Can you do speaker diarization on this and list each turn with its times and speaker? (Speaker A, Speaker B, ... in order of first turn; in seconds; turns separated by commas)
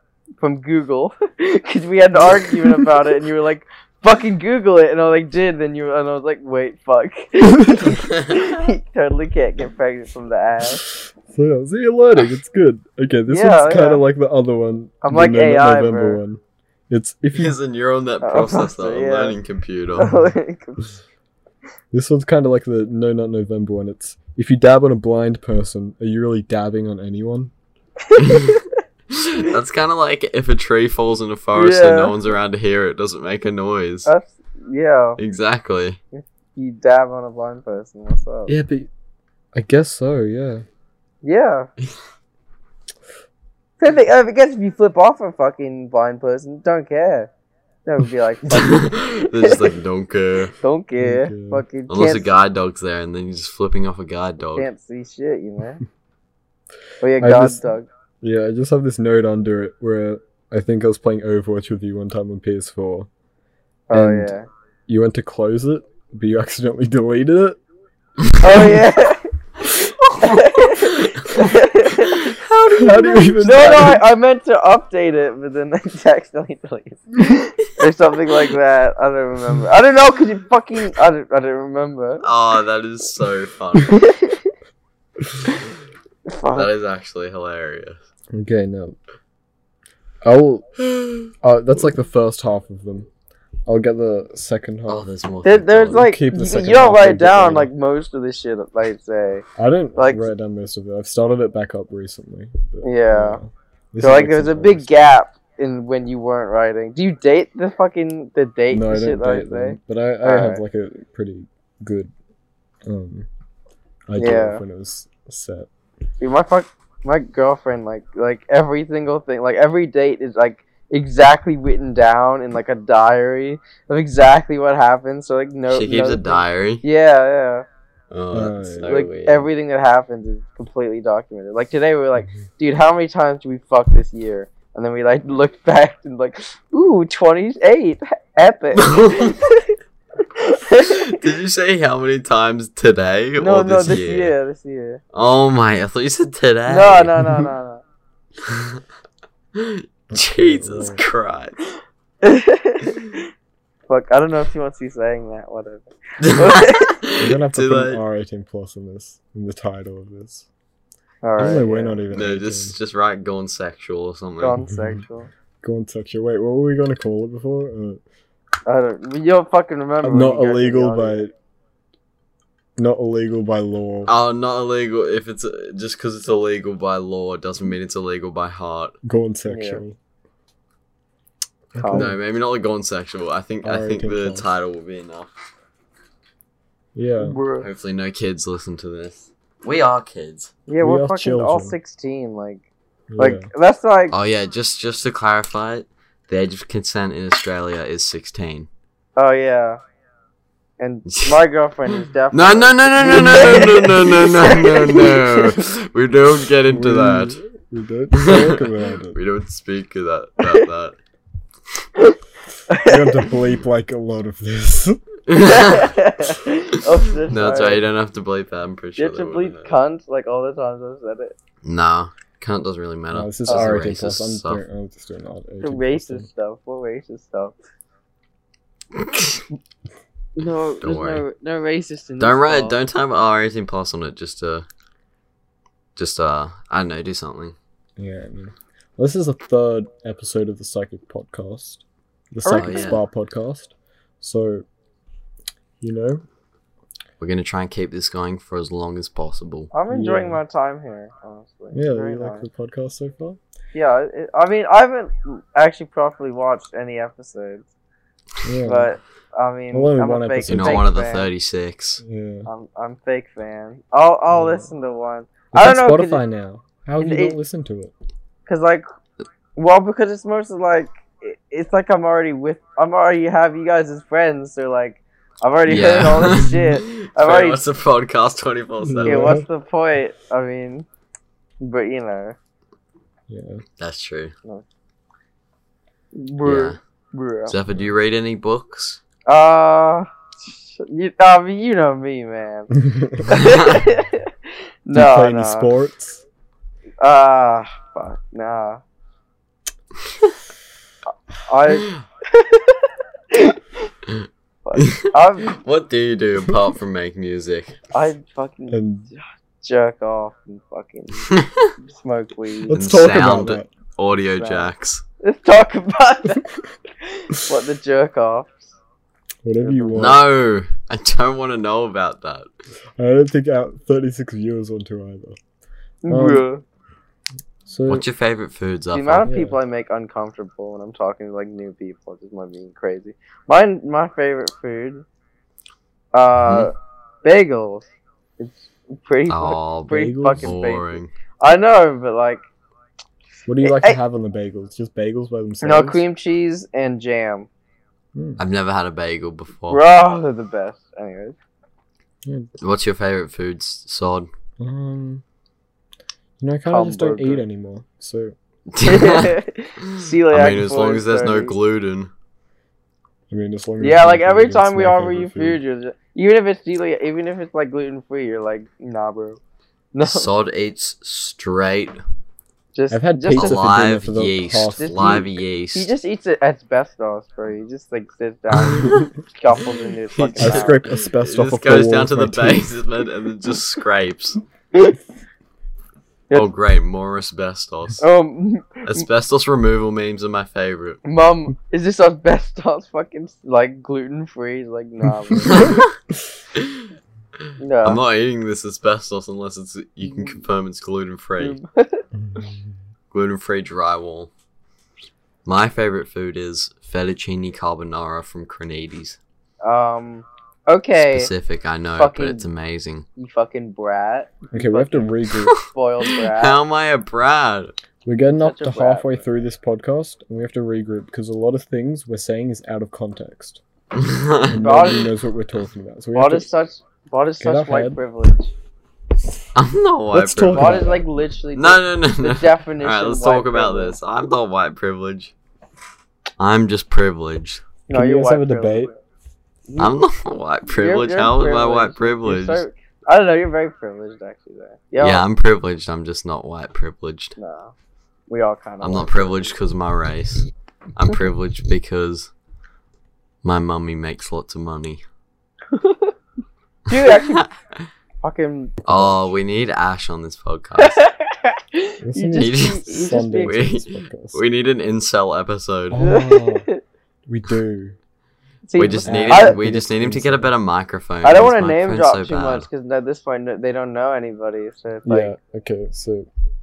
Speaker A: 0.4-10.8, Speaker B: 2.3-2.9, Speaker C: 8.1-8.4, Speaker B: 11.3-17.6, Speaker A: 13.3-14.0, Speaker A: 15.0-16.2, Speaker C: 17.3-20.2, Speaker A: 18.2-19.4, Speaker A: 20.0-21.0, Speaker B: 21.9-27.5, Speaker A: 28.1-28.7, Speaker C: 28.1-28.6, Speaker C: 29.1-34.1, Speaker A: 31.5-32.2, Speaker A: 34.0-35.2, Speaker C: 35.2-36.0, Speaker A: 36.1-38.5, Speaker B: 38.5-38.9, Speaker B: 39.5-40.6, Speaker A: 41.2-41.7, Speaker A: 43.8-47.3, Speaker A: 47.9-49.7, Speaker C: 48.5-50.5, Speaker A: 50.6-52.3, Speaker B: 51.0-51.6, Speaker C: 51.9-54.7, Speaker A: 54.5-55.8, Speaker A: 57.0-57.9, Speaker B: 57.2-57.6, Speaker B: 58.2-63.1, Speaker A: 63.9-64.5, Speaker B: 63.9-64.3, Speaker B: 64.9-67.6, Speaker A: 68.4-69.2, Speaker A: 70.1-72.3, Speaker C: 70.1-71.5, Speaker C: 72.0-73.9, Speaker B: 72.7-74.0, Speaker A: 73.4-82.2, Speaker C: 82.2-84.1, Speaker A: 83.9-84.5, Speaker A: 86.3-86.7, Speaker C: 86.5-88.0, Speaker B: 88.3-89.0, Speaker B: 90.2-90.7, Speaker C: 90.9-91.3, Speaker B: 91.4-93.1, Speaker B: 93.7-95.1, Speaker C: 94.9-96.0, Speaker A: 95.4-99.4, Speaker B: 95.9-97.7, Speaker B: 99.5-104.9, Speaker A: 100.0-100.2, Speaker A: 102.8-103.4, Speaker A: 104.0-110.6, Speaker B: 108.7-112.1, Speaker B: 112.8-113.3, Speaker B: 114.1-115.7, Speaker A: 114.2-114.6, Speaker A: 116.2-127.6, Speaker C: 125.7-126.8, Speaker C: 128.1-129.5, Speaker B: 128.3-129.1, Speaker A: 128.8-139.7, Speaker C: 138.7-139.4, Speaker A: 140.3-141.2, Speaker C: 140.8-144.3, Speaker A: 143.4-145.0, Speaker C: 145.1-147.4, Speaker A: 146.7-147.8, Speaker C: 148.5-148.8, Speaker C: 149.5-151.6, Speaker B: 150.1-151.0, Speaker A: 152.2-153.2, Speaker A: 153.9-157.0, Speaker C: 156.2-158.0, Speaker B: 157.2-160.5, Speaker A: 161.2-162.0, Speaker B: 161.4-162.8, Speaker C: 162.1-164.6, Speaker A: 164.4-165.3, Speaker B: 164.7-165.0, Speaker B: 165.6-168.0, Speaker A: 168.7-171.2, Speaker B: 170.0-171.3, Speaker B: 172.8-174.1, Speaker C: 174.1-178.9, Speaker B: 179.0-180.0, Speaker A: 179.4-179.8, Speaker B: 181.7-182.2, Speaker A: 181.8-182.1, Speaker C: 181.9-185.3, Speaker B: 183.6-184.4, Speaker B: 186.9-187.4, Speaker A: 187.2-187.7, Speaker C: 187.6-190.5, Speaker A: 190.7-192.6, Speaker B: 190.8-191.8, Speaker B: 193.1-193.5, Speaker A: 193.2-194.1, Speaker C: 194.1-198.7, Speaker A: 199.2-199.8, Speaker A: 200.8-205.6, Speaker C: 201.1-201.4, Speaker C: 202.3-207.4, Speaker B: 206.7-209.2, Speaker C: 208.1-210.9, Speaker A: 212.7-213.3, Speaker B: 212.8-215.0, Speaker C: 215.3-216.0, Speaker A: 215.4-217.8, Speaker C: 217.3-219.7, Speaker A: 219.0-221.3, Speaker C: 221.6-224.6, Speaker B: 223.1-226.3, Speaker A: 223.5-223.7, Speaker A: 225.6-227.5, Speaker C: 228.9-229.4, Speaker A: 230.3-232.7, Speaker C: 230.8-231.2, Speaker C: 232.2-234.6, Speaker C: 235.9-237.6, Speaker B: 238.0-244.6, Speaker A: 242.4-243.0, Speaker C: 242.5-243.0, Speaker B: 245.8-246.2, Speaker C: 247.2-249.7, Speaker A: 249.7-252.4, Speaker B: 249.9-250.4, Speaker B: 251.7-253.4, Speaker A: 253.7-257.7, Speaker B: 258.4-258.9, Speaker A: 258.6-261.3, Speaker B: 259.7-260.9, Speaker C: 260.5-262.0, Speaker B: 262.0-262.5, Speaker A: 262.4-266.2, Speaker B: 264.3-264.7, Speaker B: 265.5-267.9, Speaker A: 267.0-267.4, Speaker A: 268.5-268.9, Speaker A: 269.6-277.6, Speaker C: 275.7-279.4, Speaker B: 278.8-279.4, Speaker A: 279.0-280.9, Speaker A: 281.6-282.4, Speaker B: 283.3-283.6, Speaker C: 283.8-284.3, Speaker A: 286.1-287.5, Speaker C: 286.4-286.8, Speaker C: 287.5-289.0, Speaker A: 289.3-294.3, Speaker B: 292.8-293.3, Speaker C: 293.3-293.8, Speaker A: 294.9-295.7, Speaker B: 294.9-296.2, Speaker A: 297.0-298.8, Speaker A: 301.4-303.6, Speaker A: 304.6-305.6, Speaker C: 304.8-307.8, Speaker A: 307.9-312.8, Speaker B: 308.7-309.1, Speaker C: 311.3-311.7, Speaker B: 312.7-313.7, Speaker C: 312.7-315.0, Speaker A: 314.4-314.7, Speaker A: 315.2-316.5, Speaker A: 317.0-318.7, Speaker B: 319.4-320.2, Speaker A: 319.6-320.1, Speaker C: 319.9-322.5, Speaker B: 323.0-325.4, Speaker A: 326.0-326.6, Speaker B: 326.1-326.4, Speaker B: 327.6-328.1, Speaker C: 327.9-329.3, Speaker A: 328.9-335.0, Speaker B: 329.2-329.6, Speaker A: 336.1-337.9, Speaker C: 336.4-336.7, Speaker A: 338.4-342.4, Speaker C: 339.3-341.1, Speaker B: 339.9-340.5, Speaker B: 343.4-346.0, Speaker A: 343.6-344.0, Speaker A: 345.6-347.5, Speaker B: 348.1-348.4, Speaker C: 348.4-349.8, Speaker A: 349.7-351.4, Speaker B: 352.2-352.5, Speaker C: 352.6-354.3, Speaker B: 354.6-355.2, Speaker B: 356.4-358.3, Speaker A: 356.7-357.4, Speaker C: 358.7-362.1, Speaker A: 358.8-361.5, Speaker B: 363.3-365.6, Speaker A: 363.8-369.4, Speaker A: 369.9-370.3, Speaker C: 370.0-372.0, Speaker A: 372.7-373.6, Speaker B: 372.9-375.3, Speaker C: 373.3-375.9, Speaker A: 374.8-380.8, Speaker C: 378.6-379.0, Speaker C: 380.1-384.4, Speaker B: 380.4-382.7, Speaker C: 386.3-388.0, Speaker A: 388.0-389.1, Speaker C: 388.9-391.0, Speaker A: 391.0-395.8, Speaker B: 395.3-395.6, Speaker C: 395.4-395.9, Speaker C: 396.5-396.9, Speaker A: 397.6-398.0, Speaker C: 397.8-401.6, Speaker A: 400.0-400.3, Speaker A: 401.4-402.0, Speaker B: 402.1-402.6, Speaker C: 403.1-404.3, Speaker C: 405.4-409.2, Speaker A: 409.6-411.3, Speaker C: 411.0-413.1, Speaker A: 412.0-412.5, Speaker A: 413.1-416.6, Speaker B: 414.5-415.6, Speaker C: 415.3-417.7, Speaker B: 418.0-423.6, Speaker A: 418.4-419.2, Speaker C: 423.9-425.0, Speaker B: 424.5-426.5, Speaker A: 424.6-425.1, Speaker A: 426.1-428.5, Speaker B: 427.4-428.0, Speaker C: 429.5-430.9, Speaker B: 430.1-431.0, Speaker A: 430.5-433.9, Speaker C: 431.5-435.3, Speaker C: 436.4-437.6, Speaker A: 437.9-438.9, Speaker B: 437.9-438.9, Speaker A: 439.7-439.9, Speaker C: 439.8-442.6, Speaker A: 440.7-445.2, Speaker C: 445.0-447.3, Speaker A: 447.4-447.7, Speaker A: 448.3-449.5, Speaker C: 448.8-452.3, Speaker C: 453.4-455.0, Speaker A: 455.7-456.1, Speaker A: 456.9-457.5, Speaker C: 457.1-457.5, Speaker A: 458.2-458.8, Speaker C: 458.8-461.1, Speaker B: 458.9-459.2, Speaker A: 460.8-463.6, Speaker B: 462.0-464.4, Speaker C: 462.4-466.0, Speaker B: 465.9-466.7, Speaker A: 466.0-466.8, Speaker B: 467.3-467.9, Speaker A: 468.6-469.6, Speaker C: 468.8-472.7, Speaker B: 469.0-470.5, Speaker A: 471.2-475.3, Speaker B: 475.0-476.3